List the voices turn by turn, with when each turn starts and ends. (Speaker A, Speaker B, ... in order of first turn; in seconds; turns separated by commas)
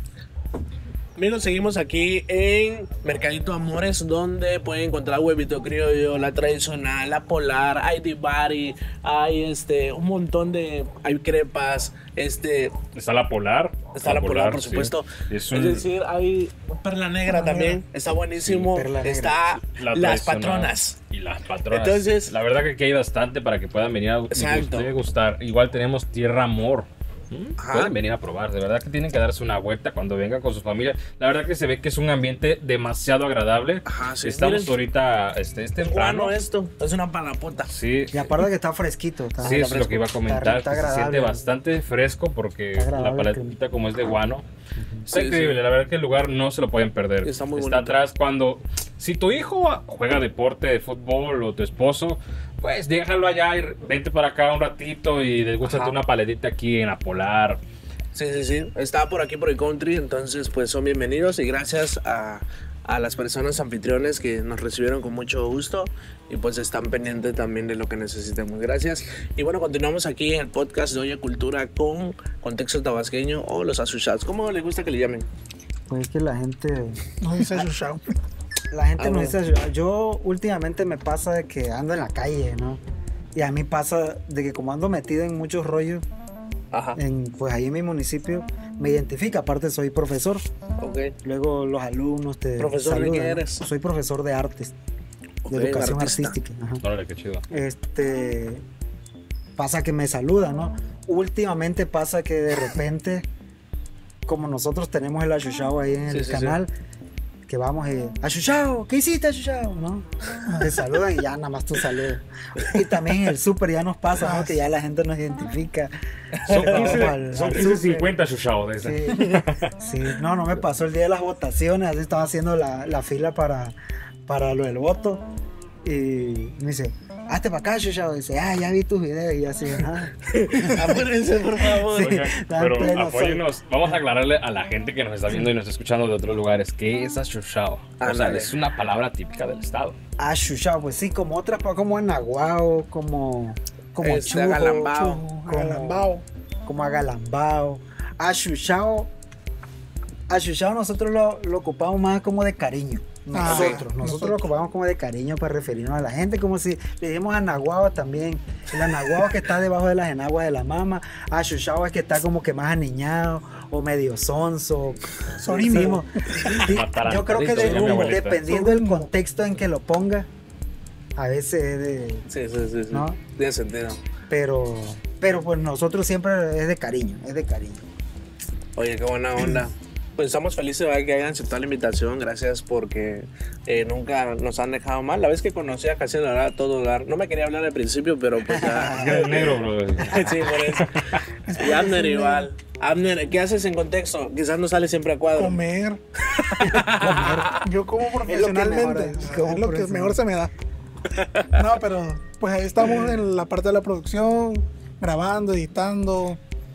Speaker A: 1.2-12.8, Speaker B: 12.9-15.9, Speaker A: 13.9-21.0, Speaker C: 17.3-17.8, Speaker B: 18.4-18.7, Speaker D: 18.7-19.4, Speaker B: 19.6-36.3, Speaker A: 21.7-22.3, Speaker A: 24.3-24.9, Speaker A: 27.6-27.9, Speaker A: 33.9-34.7, Speaker A: 35.8-37.7, Speaker B: 37.7-38.4, Speaker D: 38.1-41.4, Speaker B: 39.4-44.5, Speaker D: 42.7-43.6, Speaker D: 44.8-45.1, Speaker A: 45.1-45.6, Speaker B: 45.1-57.6, Speaker A: 47.2-48.0, Speaker A: 55.6-56.0, Speaker A: 58.1-75.3, Speaker D: 75.9-77.7, Speaker C: 77.2-78.1, Speaker D: 78.7-82.8, Speaker A: 79.0-79.4, Speaker D: 83.3-86.0, Speaker A: 86.7-87.0, Speaker D: 87.0-90.4, Speaker A: 90.8-91.1, Speaker D: 91.2-94.7, Speaker A: 92.6-93.6, Speaker A: 95.4-96.4, Speaker D: 95.5-96.8, Speaker B: 96.8-97.5, Speaker D: 97.5-98.6, Speaker D: 99.6-103.2, Speaker D: 104.2-106.7, Speaker A: 106.1-106.6, Speaker D: 107.5-115.9, Speaker C: 110.4-110.8, Speaker C: 114.2-114.5, Speaker A: 116.4-117.1, Speaker D: 116.5-118.1, Speaker B: 116.5-119.7, Speaker D: 118.8-123.8, Speaker D: 124.3-125.2, Speaker D: 125.8-131.0, Speaker A: 130.2-132.2, Speaker D: 131.6-133.5, Speaker B: 132.0-139.9, Speaker A: 138.0-138.5, Speaker D: 140.2-146.1, Speaker A: 144.0-145.2, Speaker C: 145.0-146.2, Speaker D: 146.7-149.1, Speaker D: 150.3-170.3, Speaker C: 153.3-154.4, Speaker A: 153.4-153.8, Speaker C: 165.4-166.6, Speaker B: 166.4-168.5, Speaker C: 168.1-169.1, Speaker D: 171.2-172.2, Speaker A: 172.3-174.0, Speaker D: 172.9-173.2, Speaker D: 174.3-177.8, Speaker A: 178.8-189.4, Speaker D: 188.5-190.0, Speaker B: 188.8-191.2, Speaker A: 190.1-195.6, Speaker C: 191.5-192.5, Speaker C: 195.3-196.0, Speaker A: 196.2-197.7, Speaker D: 196.7-197.5, Speaker C: 197.0-200.5, Speaker D: 198.2-200.2, Speaker A: 201.1-201.6, Speaker C: 201.5-206.4